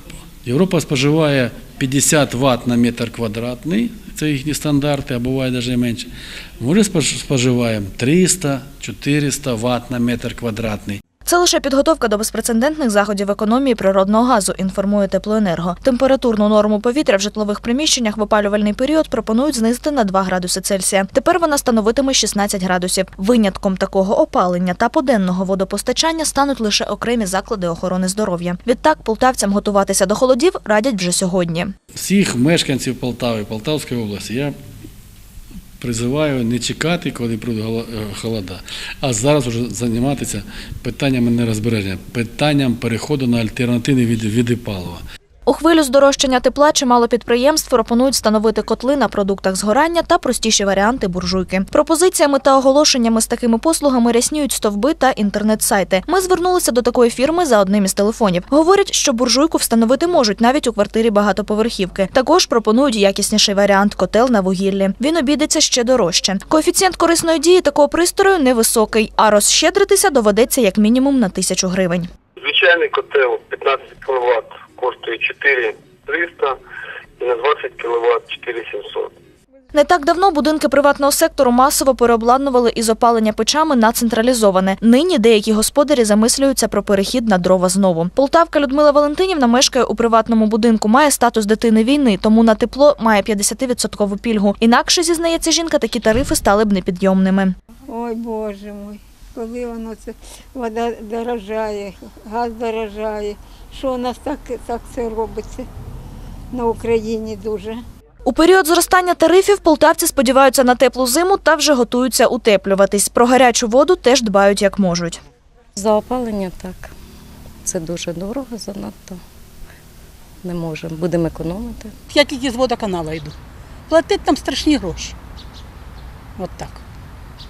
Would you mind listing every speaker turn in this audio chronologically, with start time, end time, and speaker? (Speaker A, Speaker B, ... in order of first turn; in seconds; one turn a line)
Speaker A: 0.4-11.0
Speaker B: 11.2-31.7
Speaker A: 31.9-34.5
Speaker A: 35.8-45.0
Speaker B: 45.5-72.1
Speaker C: 72.4-76.6
Speaker C: 77.2-79.1
Speaker B: 79.7-97.5
Speaker D: 97.9-105.7
Speaker D: 106.5-107.8
Speaker B: 108.2-115.2
Speaker E: 115.8-116.9
Speaker E: 117.6-119.2
Speaker E: 120.4-121.9
Speaker F: 122.1-123.3
Speaker F: 123.9-125.2
Speaker F: 126.4-126.8